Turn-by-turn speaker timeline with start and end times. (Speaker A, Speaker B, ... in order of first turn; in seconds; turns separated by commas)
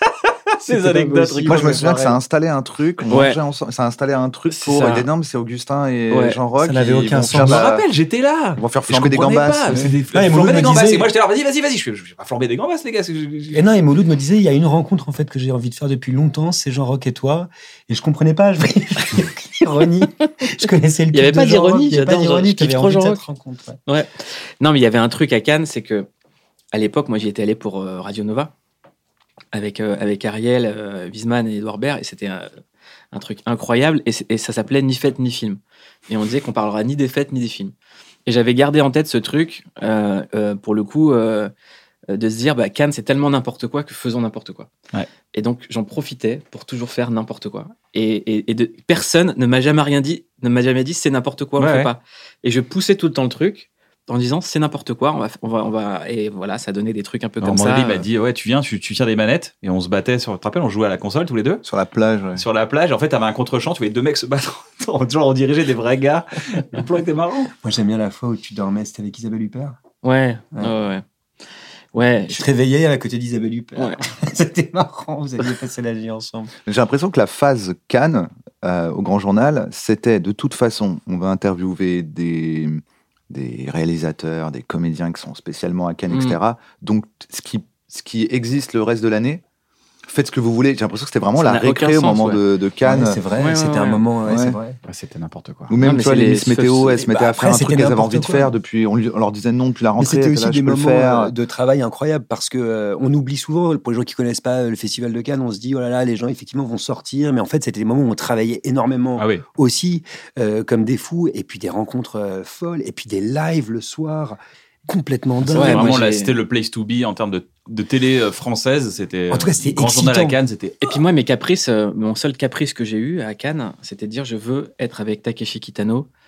Speaker A: 0.6-2.1, Speaker B: 0.7-1.9, Speaker C: 1.5-7.9, Speaker D: 3.1-3.4, Speaker D: 4.5-5.1, Speaker D: 6.1-6.4, Speaker B: 6.6-7.6, Speaker A: 7.3-13.6, Speaker C: 8.6-9.9, Speaker B: 10.1-11.1, Speaker B: 13.5-23.8, Speaker D: 21.1-23.2, Speaker D: 23.9-26.1, Speaker D: 26.7-28.5, Speaker D: 29.5-32.5, Speaker D: 33.1-37.7, Speaker D: 38.3-41.5, Speaker D: 42.1-44.7, Speaker D: 45.3-58.1, Speaker A: 51.6-51.9, Speaker A: 57.4-61.6, Speaker C: 61.6-62.4, Speaker A: 62.4-67.5, Speaker B: 67.6-69.8, Speaker D: 70.0-71.0, Speaker D: 71.9-72.5, Speaker B: 72.3-76.5, Speaker C: 76.7-89.4, Speaker D: 86.1-86.4, Speaker C: 90.1-93.2, Speaker D: 91.4-92.4, Speaker B: 92.8-94.8, Speaker D: 93.4-94.0, Speaker C: 94.3-94.6, Speaker A: 94.9-95.7, Speaker C: 95.7-101.3, Speaker D: 95.8-97.3, Speaker B: 97.1-98.5, Speaker B: 100.0-115.9, Speaker A: 109.2-109.4, Speaker A: 115.4-121.0, Speaker D: 115.5-116.3, Speaker B: 119.3-120.4, Speaker D: 120.8-126.1